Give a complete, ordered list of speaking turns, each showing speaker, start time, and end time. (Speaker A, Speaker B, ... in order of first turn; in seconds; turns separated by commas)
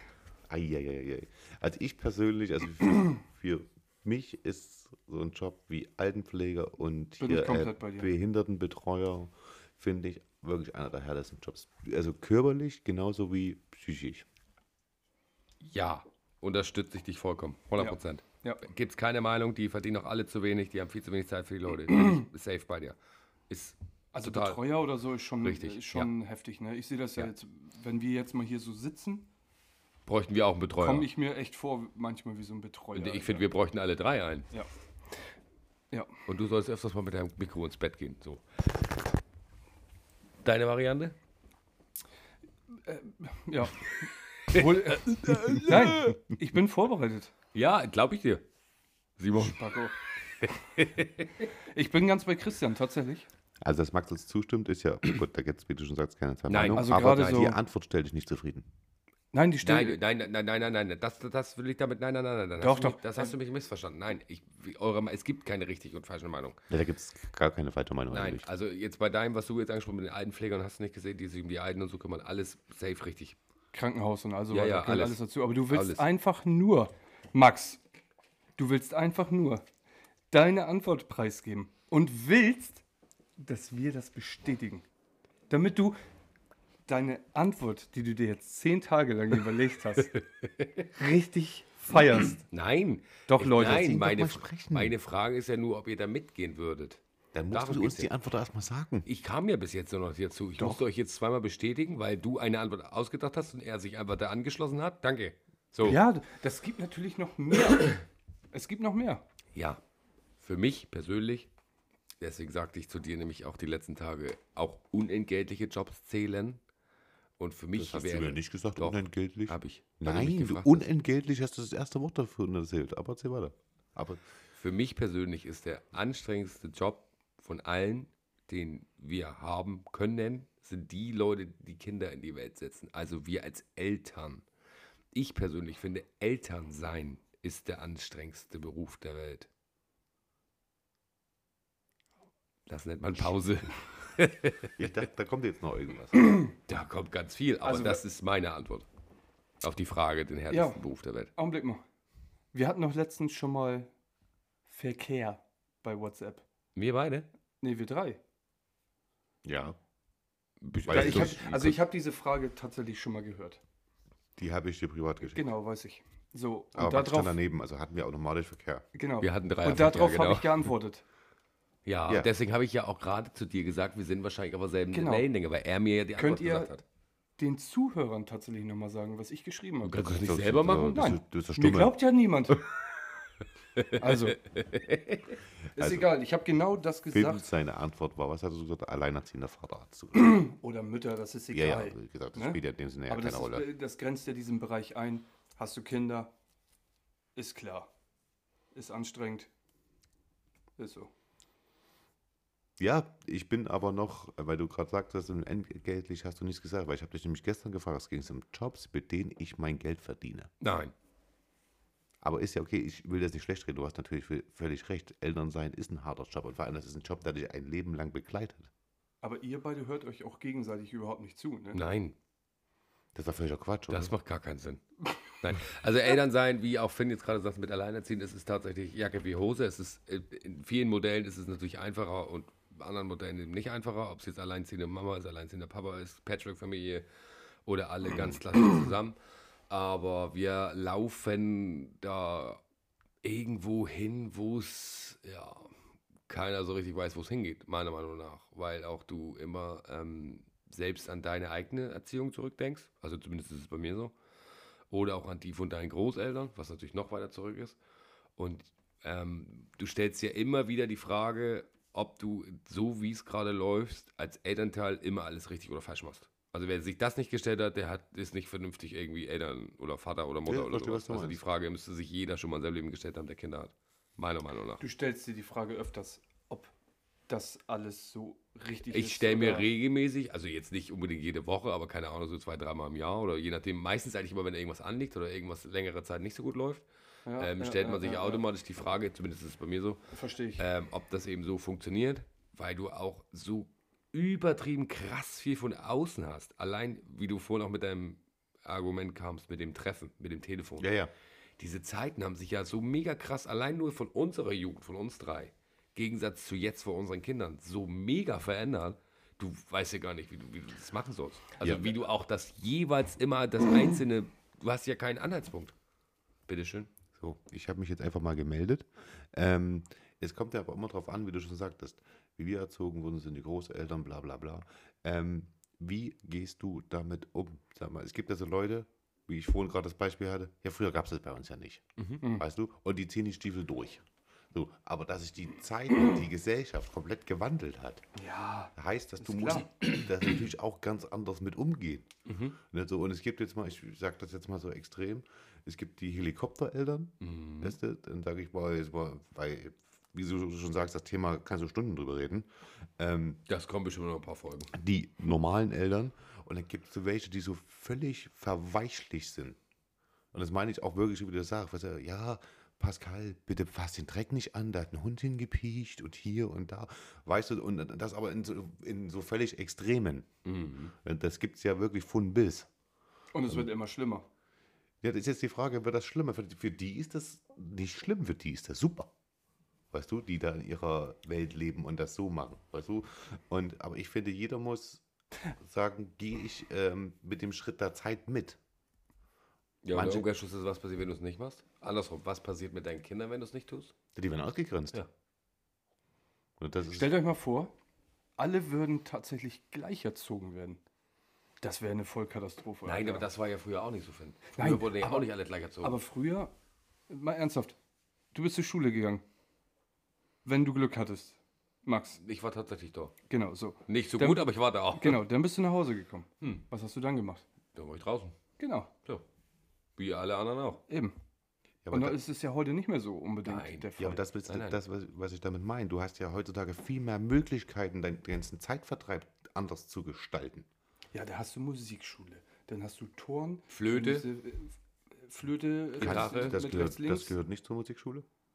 Speaker A: 0.5-14.2, Speaker B: 7.2-8.1, Speaker C: 15.6-23.0, Speaker B: 17.8-18.6, Speaker B: 21.9-22.2, Speaker C: 23.5-24.6, Speaker B: 24.1-29.3, Speaker C: 25.4-26.1, Speaker C: 30.1-31.1, Speaker B: 30.8-33.5, Speaker C: 32.9-34.5, Speaker B: 35.9-36.1, Speaker C: 36.3-38.4, Speaker C: 40.4-41.1, Speaker B: 42.8-47.3, Speaker C: 44.5-46.2, Speaker C: 47.5-48.4, Speaker C: 49.2-51.5, Speaker B: 49.4-50.0, Speaker B: 51.5-53.3, Speaker A: 53.6-58.7, Speaker C: 56.5-57.5, Speaker B: 56.8-57.6, Speaker B: 59.3-60.0, Speaker C: 59.6-66.6, Speaker B: 62.6-63.3, Speaker A: 66.7-68.5, Speaker C: 68.1-73.4, Speaker B: 73.7-77.8, Speaker C: 74.5-76.1, Speaker B: 78.6-79.6, Speaker B: 80.3-82.8, Speaker B: 83.4-84.8, Speaker B: 85.5-86.0, Speaker B: 86.9-90.2, Speaker C: 90.1-90.9, Speaker B: 90.9-92.5, Speaker C: 92.5-98.1, Speaker B: 93.3-93.9, Speaker A: 93.6-94.9, Speaker A: 97.3-99.0, Speaker C: 99.0-106.0, Speaker B: 105.8-109.2, Speaker C: 109.5-109.8, Speaker C: 110.4-111.5, Speaker C: 112.2-116.6, Speaker C: 117.4-120.9, Speaker A: 117.7-124.2, Speaker C: 124.5-134.4, Speaker C: 135.1-139.5, Speaker C: 142.7-144.8, Speaker A: 144.8-146.4, Speaker C: 146.7-148.9, Speaker B: 147.6-148.0, Speaker C: 149.6-151.3, Speaker B: 150.5-150.8, Speaker B: 151.3-151.8, Speaker B: 152.5-153.9, Speaker B: 154.7-156.4, Speaker C: 156.8-157.3, Speaker B: 157.6-158.2, Speaker A: 159.4-159.8, Speaker C: 160.6-161.8, Speaker A: 160.8-161.7, Speaker B: 160.9-163.6, Speaker A: 164.4-165.4, Speaker B: 165.2-167.4, Speaker A: 166.7-168.8, Speaker B: 168.9-171.0, Speaker C: 169.2-170.7, Speaker C: 171.8-176.8, Speaker B: 174.9-175.3, Speaker B: 176.2-176.7, Speaker B: 177.4-180.1, Speaker C: 179.8-181.1, Speaker A: 179.9-182.0, Speaker B: 180.9-182.6, Speaker C: 183.7-185.4, Speaker B: 183.9-184.4, Speaker B: 185.7-187.4, Speaker A: 185.8-186.1, Speaker A: 187.1-190.4, Speaker B: 190.1-196.3, Speaker A: 191.5-193.7, Speaker B: 197.3-197.9, Speaker B: 198.7-199.5, Speaker B: 200.8-201.1, Speaker A: 202.8-210.5, Speaker C: 210.6-210.9, Speaker A: 212.2-218.7, Speaker B: 219.2-221.8, Speaker C: 221.7-222.2, Speaker A: 223.1-224.1, Speaker C: 223.9-237.0, Speaker C: 237.7-239.2, Speaker C: 239.7-242.6, Speaker C: 243.2-245.7, Speaker C: 246.3-254.1, Speaker C: 254.9-257.8, Speaker C: 258.4-274.8, Speaker A: 270.4-271.4, Speaker B: 274.8-276.7, Speaker B: 277.3-279.7, Speaker C: 278.9-286.8, Speaker B: 287.2-288.4, Speaker C: 287.4-290.0, Speaker B: 290.1-290.6, Speaker C: 290.6-300.9, Speaker A: 300.8-301.1, Speaker C: 301.6-315.7, Speaker A: 311.6-311.9, Speaker C: 316.5-316.9, Speaker A: 317.1-338.0, Speaker C: 332.0-332.2, Speaker B: 338.1-339.7, Speaker A: 338.8-353.4, Speaker C: 342.2-342.6, Speaker C: 347.2-347.8, Speaker C: 353.5-354.7, Speaker A: 354.7-359.6, Speaker A: 360.3-370.3, Speaker C: 370.4-370.9, Speaker A: 370.9-372.7, Speaker B: 373.3-374.2, Speaker A: 375.0-379.1, Speaker A: 379.9-385.0, Speaker A: 385.6-388.6, Speaker C: 389.8-393.9, Speaker A: 389.9-390.3, Speaker A: 394.1-395.0, Speaker A: 396.6-397.1, Speaker B: 396.9-397.7, Speaker B: 398.4-400.8, Speaker B: 401.6-403.3, Speaker C: 402.8-406.0, Speaker B: 404.6-405.3, Speaker B: 405.8-406.5, Speaker B: 407.1-407.8, Speaker B: 408.3-409.2, Speaker B: 410.4-412.2, Speaker C: 412.2-413.1, Speaker B: 413.3-417.4, Speaker C: 413.9-415.2, Speaker C: 417.7-418.4, Speaker B: 418.6-418.9, Speaker C: 420.0-420.8, Speaker B: 420.9-421.1, Speaker A: 421.8-422.2, Speaker B: 421.9-424.2, Speaker C: 423.4-423.9, Speaker A: 424.0-430.7, Speaker C: 424.4-424.8, Speaker B: 431.1-437.3, Speaker C: 433.7-434.3, Speaker C: 436.0-436.6, Speaker A: 436.0-438.2